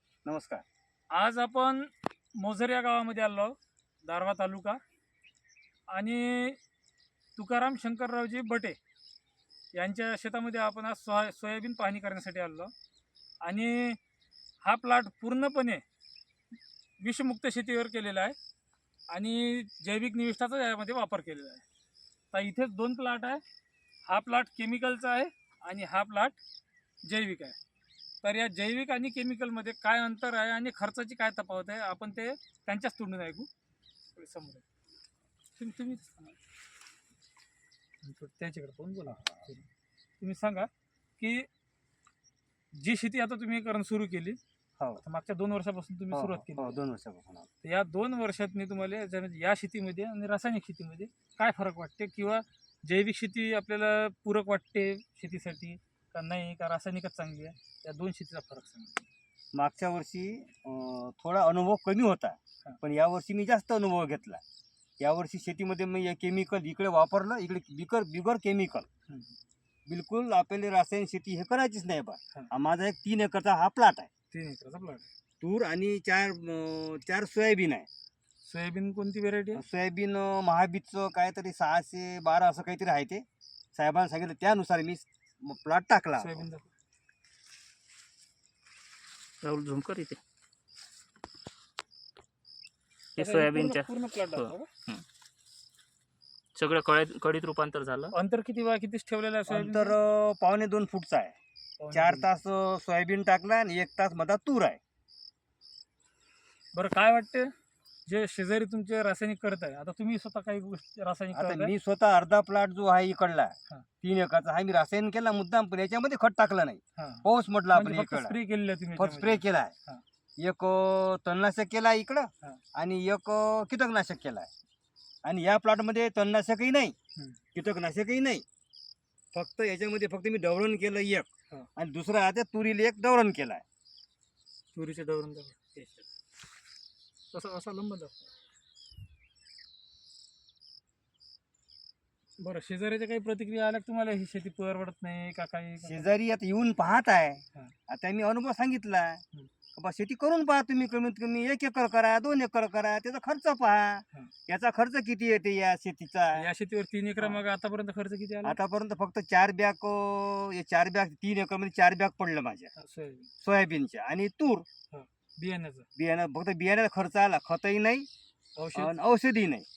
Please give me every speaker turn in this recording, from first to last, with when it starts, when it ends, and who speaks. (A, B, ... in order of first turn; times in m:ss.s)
0:00.2-0:00.6 A
0:01.1-0:04.8 B
0:05.9-0:06.6 B
0:07.4-0:08.8 B
0:09.7-0:12.7 B
0:13.4-0:14.0 B
0:14.6-0:15.8 B
0:17.0-0:18.4 B
0:19.1-0:21.6 B
0:22.3-0:23.4 B
0:24.1-0:26.4 B
0:27.0-0:27.6 B
0:28.2-0:33.5 B
0:34.2-0:34.6 B
0:35.6-0:36.3 B
0:38.0-0:39.6 B
0:39.1-0:39.5 A
0:40.2-0:41.5 B
0:42.8-0:44.4 B
0:45.0-0:46.8 B
0:46.1-0:47.5 A
0:47.6-0:59.1 B
0:59.5-1:04.4 A
1:05.0-1:08.9 A
1:09.1-1:09.3 B
1:09.9-1:14.1 A
1:14.3-1:15.1 B
1:15.4-1:17.9 A
1:18.4-1:19.6 B
1:19.6-1:26.5 A
1:26.2-1:26.7 B
1:29.4-1:30.2 C
1:33.2-1:35.0 C
1:33.2-1:34.7 B
1:36.6-1:38.1 C
1:38.1-1:40.0 B
1:39.5-1:41.4 A
1:41.8-1:42.3 B
1:41.9-1:44.8 A
1:46.8-1:47.5 B
1:48.1-1:51.7 B
1:51.3-1:58.4 A
1:57.0-2:00.0 B
1:59.0-1:59.7 A
2:00.4-2:04.5 A
2:05.2-2:07.0 A
2:07.6-2:08.4 A
2:09.3-2:13.6 A
2:14.7-2:16.0 B
2:17.3-2:18.2 B
2:22.4-2:26.1 B
2:25.8-2:29.2 A
2:29.8-2:36.5 A
2:36.4-2:38.6 B
2:38.4-2:42.7 A
2:42.8-2:43.3 B
2:43.4-2:44.7 A
2:44.9-2:45.9 B
2:46.0-2:48.1 A
2:48.6-2:48.9 B
2:48.8-2:49.7 A